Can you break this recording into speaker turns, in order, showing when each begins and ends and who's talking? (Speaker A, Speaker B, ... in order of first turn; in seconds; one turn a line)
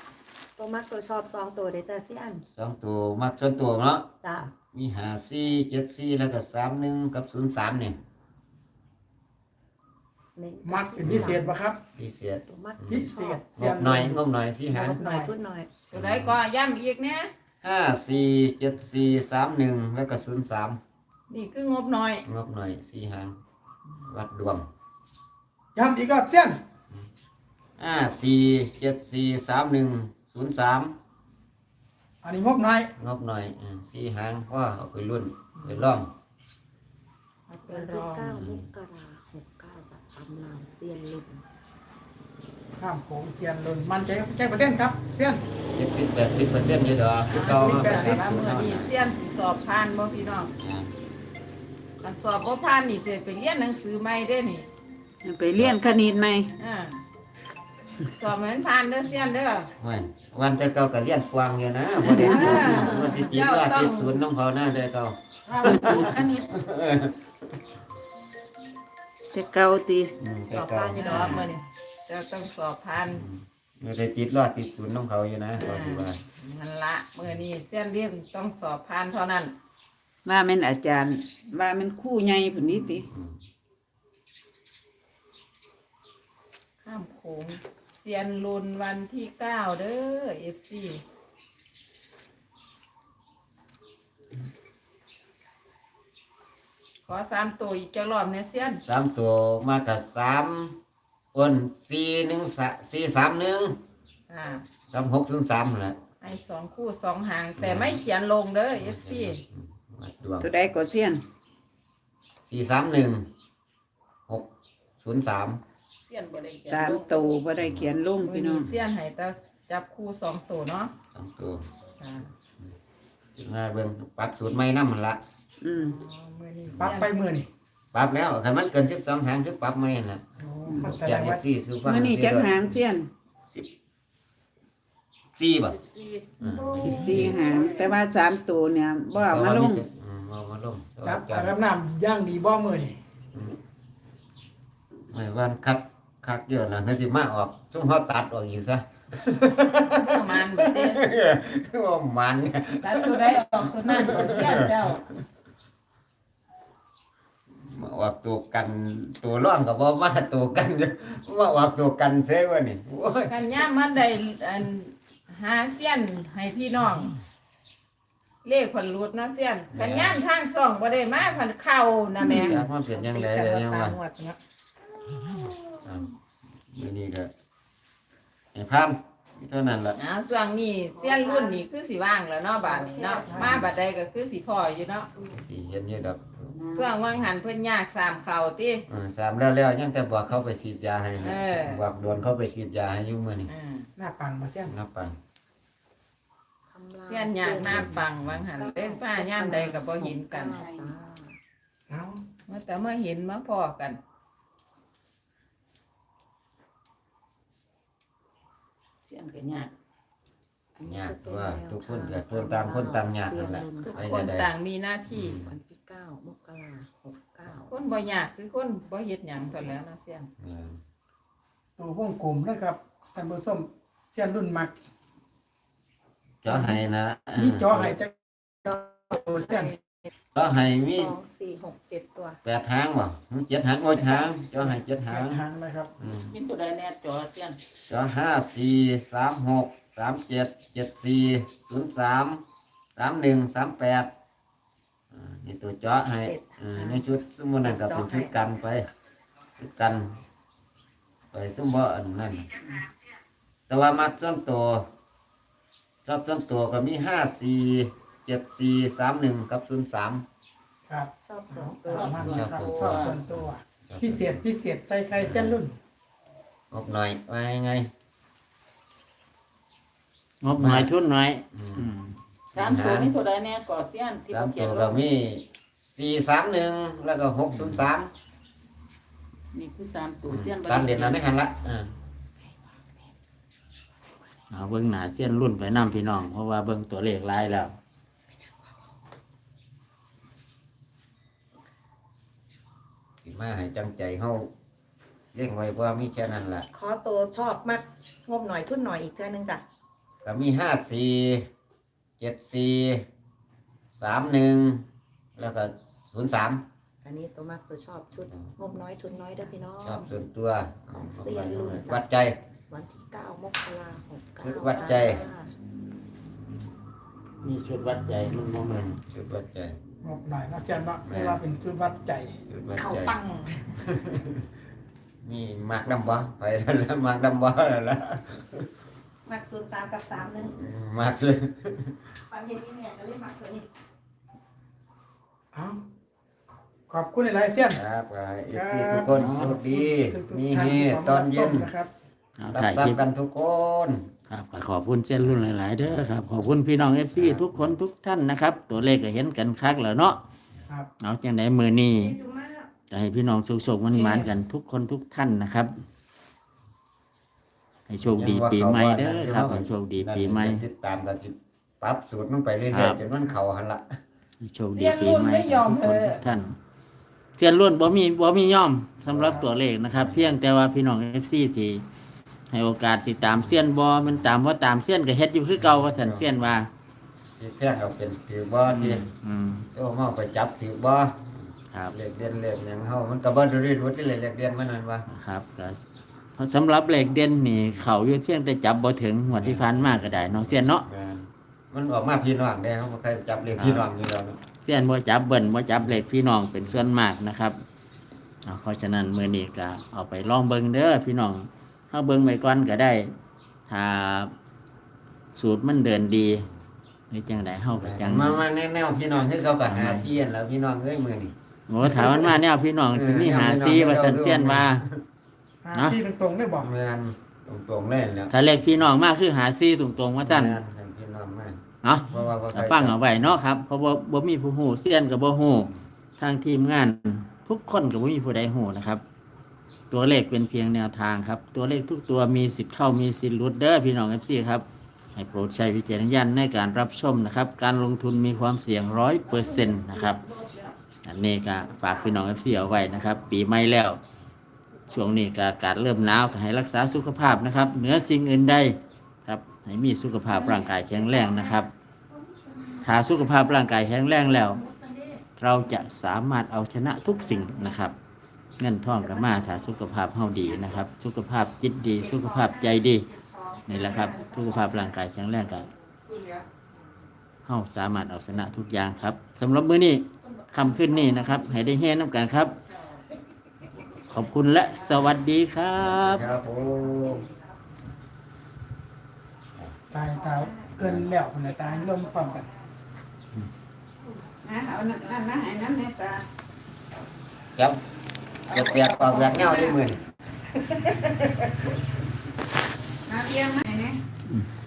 Speaker A: 0.6-2.4
Speaker B: 2.5-4.1
Speaker A: 4.2-4.5
Speaker B: 4.7-8.0
Speaker A: 10.4-11.5
Speaker C: 10.6-11.8
Speaker B: 11.0-11.4
Speaker B: 12.0-15.0
Speaker A: 12.5-13.4
Speaker C: 12.9-14.2
Speaker A: 14.7-15.7
Speaker C: 14.8-15.3
Speaker D: 15.9-17.3
Speaker B: 15.9-16.4
Speaker B: 17.6-20.8
Speaker D: 21.3-22.2
Speaker B: 22.3-23.4
Speaker B: 24.1-24.7
Speaker C: 25.8-26.6
Speaker B: 27.8-31.0
Speaker C: 32.2-32.9
Speaker B: 33.0-36.1
Speaker D: 35.6-36.0
Speaker D: 37.5-38.4
Speaker A: 37.7-41.4
Speaker B: 38.4-38.6
Speaker C: 42.8-45.4
Speaker B: 45.7-48.9
Speaker D: 47.3-50.5
Speaker C: 47.4-48.2
Speaker B: 50.5-50.9
Speaker D: 52.0-54.7
Speaker E: 55.2-56.5
Speaker D: 56.6-57.0
Speaker D: 58.1-59.7
Speaker B: 59.8-67.3
Speaker D: 62.0-64.2
Speaker D: 65.5-66.5
Speaker F: 65.5-66.5
Speaker E: 65.7-66.0
Speaker E: 69.3-70.1
Speaker B: 70.2-71.5
Speaker A: 70.5-71.5
Speaker D: 70.9-73.2
Speaker B: 73.1-76.2
Speaker D: 75.6-79.5
Speaker E: 80.2-83.1
Speaker B: 83.1-83.4
Speaker D: 86.8-91.0
Speaker D: 97.1-98.8
Speaker B: 98.8-100.8
Speaker B: 101.3-103.8
Speaker D: 104.3-104.7
Speaker B: 104.9-106.0
Speaker D: 106.2-109.4
Speaker B: 107.6-108.0
Speaker B: 108.8-110.5
Speaker E: 110.4-111.2
Speaker B: 112.4-113.3
Speaker B: 115.0-115.6
Speaker F: 116.0-117.4
Speaker E: 116.7-118.7
Speaker B: 117.6-117.9
Speaker D: 118.2-120.9
Speaker B: 121.1-121.7
Speaker D: 122.0-122.3
Speaker B: 123.4-125.2
Speaker E: 125.6-126.0
Speaker D: 125.7-127.2
Speaker B: 126.7-127.0
Speaker C: 126.8-127.5
Speaker B: 127.9-130.2
Speaker C: 130.4-131.4
Speaker B: 130.8-132.7
Speaker E: 131.8-133.1
Speaker B: 135.4-135.8
Speaker D: 135.8-136.2
Speaker B: 136.4-137.5
Speaker E: 136.8-139.8
Speaker C: 137.2-137.9
Speaker B: 139.2-141.6
Speaker C: 141.0-143.0
Speaker B: 145.1-154.9
Speaker D: 149.8-151.0
Speaker D: 152.8-155.0
Speaker B: 157.6-163.3
Speaker D: 163.3-167.1
Speaker D: 168.4-172.6
Speaker B: 169.7-170.2
Speaker A: 172.2-174.4
Speaker B: 172.3-174.0
Speaker A: 175.3-175.8
Speaker B: 175.8-176.1
Speaker B: 176.7-177.3
Speaker B: 178.5-180.0
Speaker D: 180.0-185.1
Speaker A: 181.0-181.6
Speaker A: 182.7-183.5
Speaker E: 183.0-183.6
Speaker B: 183.4-183.7
Speaker B: 185.3-186.5
Speaker E: 186.5-186.9
Speaker D: 186.7-188.8
Speaker B: 188.9-193.5
Speaker D: 191.2-191.8
Speaker D: 193.5-193.9
Speaker C: 194.0-194.7
Speaker B: 194.7-195.2
Speaker A: 196.7-198.0
Speaker D: 197.1-200.6
Speaker B: 197.6-197.9
Speaker A: 198.5-201.4
Speaker E: 200.6-200.9
Speaker C: 201.9-202.2
Speaker D: 202.5-204.0
Speaker F: 209.1-209.7
Speaker A: 210.8-214.2
Speaker B: 210.8-214.5
Speaker D: 213.8-215.4
Speaker B: 215.1-215.5
Speaker A: 215.3-217.7
Speaker D: 217.7-220.3
Speaker B: 220.4-220.8
Speaker C: 221.8-224.8
Speaker B: 226.4-228.0
Speaker C: 226.5-226.8
Speaker C: 227.4-229.8
Speaker B: 230.3-231.1
Speaker A: 230.8-232.4
Speaker B: 232.4-235.4
Speaker A: 233.9-234.2
Speaker C: 235.1-235.9
Speaker B: 236.0-236.3
Speaker F: 236.3-237.6
Speaker B: 237.9-242.4
Speaker B: 243.0-244.1
Speaker B: 245.1-248.9
Speaker A: 246.2-247.0
Speaker A: 247.6-248.3
Speaker B: 249.6-250.2
Speaker B: 251.3-252.6
Speaker B: 253.7-254.9
Speaker B: 256.1-260.2
Speaker C: 260.9-265.8
Speaker A: 261.2-262.2
Speaker F: 261.9-263.2
Speaker B: 262.1-264.4
Speaker B: 265.1-265.6
Speaker B: 266.7-267.9
Speaker G: 270.4-272.2
Speaker B: 270.6-270.9
Speaker B: 271.5-271.9
Speaker B: 272.5-273.1
Speaker F: 272.5-275.0
Speaker B: 274.3-278.1
Speaker F: 279.5-281.2
Speaker B: 280.2-281.9
Speaker G: 284.5-287.8
Speaker B: 293.2-294.5
Speaker B: 295.3-296.7
Speaker A: 296.7-299.6
Speaker B: 300.2-301.5
Speaker B: 302.2-303.1
Speaker B: 303.9-306.6
Speaker A: 307.0-310.1
Speaker B: 309.8-312.4
Speaker A: 310.9-312.0
Speaker A: 312.7-315.5
Speaker B: 314.4-315.3
Speaker G: 317.4-318.9
Speaker B: 318.6-319.8
Speaker C: 320.0-323.6
Speaker B: 321.0-321.4
Speaker B: 322.5-323.2
Speaker B: 323.7-324.4
Speaker B: 325.2-328.7
Speaker A: 329.3-330.5
Speaker B: 330.4-332.0
Speaker A: 332.3-333.7
Speaker C: 335.5-335.8
Speaker C: 336.9-337.8
Speaker B: 337.7-341.7
Speaker C: 338.5-341.9
Speaker G: 339.1-339.5
Speaker G: 342.4-343.0
Speaker B: 342.5-344.1
Speaker G: 344.3-350.2
Speaker B: 347.1-347.7
Speaker G: 351.0-352.2
Speaker A: 352.0-352.7
Speaker G: 352.9-355.7
Speaker A: 353.9-354.2
Speaker G: 357.9-360.6
Speaker B: 358.0-363.9
Speaker G: 362.7-363.0
Speaker G: 364.4-366.6
Speaker D: 364.7-366.2
Speaker G: 367.4-371.8
Speaker B: 369.1-369.4
Speaker B: 370.0-370.4
Speaker G: 372.5-376.7
Speaker B: 375.6-376.5
Speaker B: 377.4-379.1
Speaker G: 378.6-379.7
Speaker B: 379.7-385.1
Speaker G: 385.1-385.8
Speaker G: 386.4-390.9
Speaker B: 389.3-394.4
Speaker G: 393.6-393.9
Speaker G: 394.6-397.6
Speaker G: 398.4-403.1
Speaker G: 403.7-404.3
Speaker G: 405.4-406.5
Speaker G: 407.1-408.4
Speaker B: 407.7-412.4
Speaker G: 409.7-410.1
Speaker G: 411.7-414.9
Speaker B: 412.9-415.0
Speaker C: 415.6-416.7
Speaker G: 415.7-416.0
Speaker B: 416.6-418.3
Speaker G: 418.3-420.6
Speaker B: 420.2-423.2
Speaker G: 421.8-429.0
Speaker G: 429.9-440.2
Speaker G: 441.0-444.0
Speaker G: 444.9-451.7
Speaker G: 452.8-454.6
Speaker G: 455.4-458.0
Speaker G: 458.6-463.1
Speaker A: 463.6-464.7
Speaker G: 463.7-465.7
Speaker G: 467.5-472.6
Speaker G: 474.1-476.3
Speaker B: 475.8-477.2
Speaker C: 479.9-482.5
Speaker E: 480.2-481.0
Speaker B: 480.7-481.1
Speaker E: 481.8-482.5
Speaker E: 484.4-486.2
Speaker B: 487.6-487.8
Speaker B: 488.5-490.0
Speaker E: 488.5-489.8
Speaker B: 490.7-491.7
Speaker E: 493.1-494.0